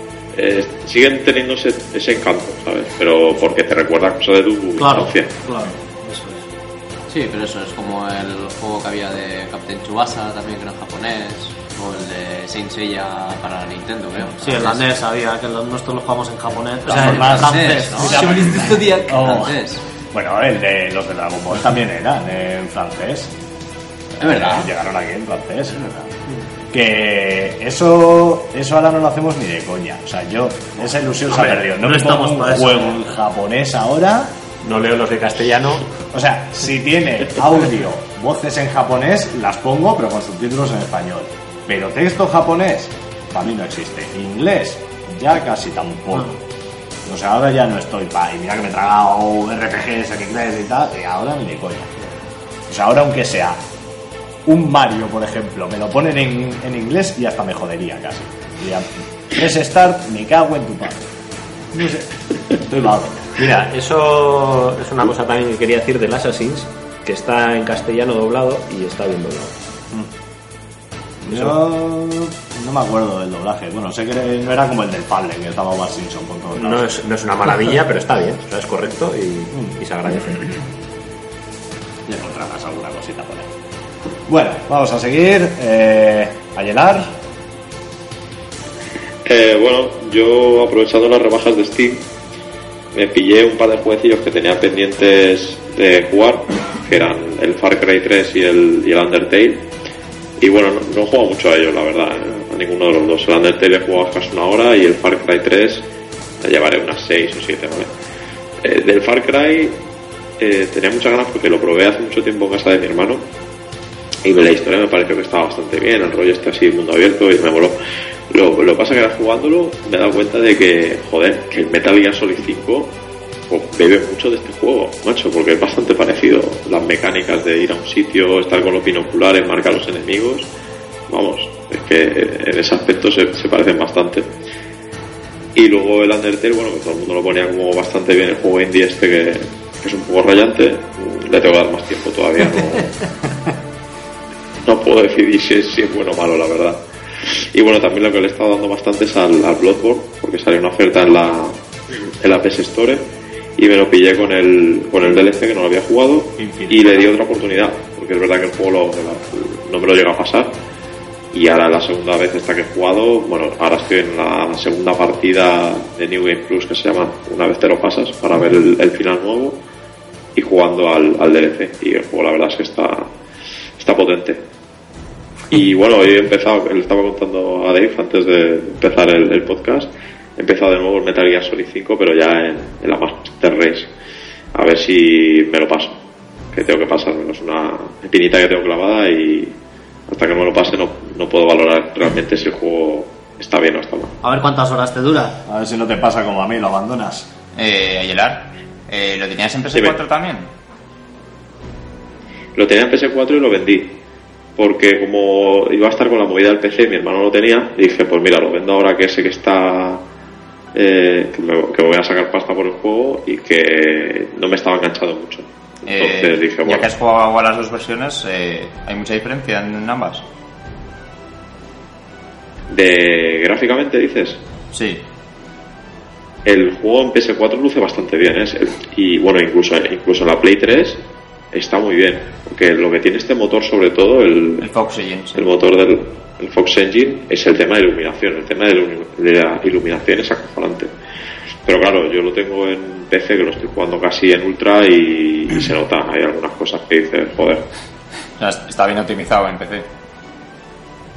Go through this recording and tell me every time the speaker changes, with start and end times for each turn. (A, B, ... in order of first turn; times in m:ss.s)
0:00.3-0:05.3 A
0:04.8-0:06.4 B
0:07.1-0:14.9 C
0:14.4-0:18.6 B
0:16.9-0:19.6 D
0:16.9-0:19.8 C
0:20.1-0:23.3 D
0:24.2-0:26.2 D
0:24.2-0:24.7 C
0:26.7-0:34.4 D
0:31.3-0:33.0 B
0:34.6-0:35.9 E
0:36.1-0:46.3 D
0:47.0-0:51.9 D
0:52.7-0:53.6 D
0:54.4-1:01.1 D
1:01.7-1:03.3 D
1:03.4-1:09.5 E
1:11.2-1:16.9 D
1:11.3-1:11.6 E
1:16.6-1:20.5 E
1:22.0-1:23.5 D
1:24.3-1:27.1 D
1:29.2-1:32.0 A
1:32.9-1:39.6 A
1:40.4-1:45.8 A
1:46.4-1:47.9 A
1:48.6-1:49.8 A
1:50.4-1:53.2 A
1:54.2-1:57.7 A
1:58.3-2:02.9 A
2:03.5-2:10.5 A
2:11.1-2:14.2 A
2:15.5-2:23.0 A
2:24.6-2:33.0 A
2:33.6-2:40.5 A
2:36.4-2:37.1 D
2:41.3-2:49.6 A
2:50.3-2:53.0 A
2:53.8-2:54.4 A
2:55.5-3:03.9 A
3:04.5-3:05.9 A
3:06.5-3:09.5 A
3:10.1-3:14.1 A
3:14.2-3:15.4 B
3:15.4-3:17.3 D
3:17.5-3:20.5 F
3:22.6-3:23.9 A
3:24.6-3:30.0 A
3:30.7-3:36.9 A
3:35.8-3:40.2 F
3:42.7-3:44.4 A
3:44.7-3:45.0 F
3:46.4-3:51.0 A
3:51.5-3:54.7 A
3:54.6-3:55.5 F
3:55.3-4:00.9 A
4:01.6-4:07.6 A
4:08.4-4:09.8 F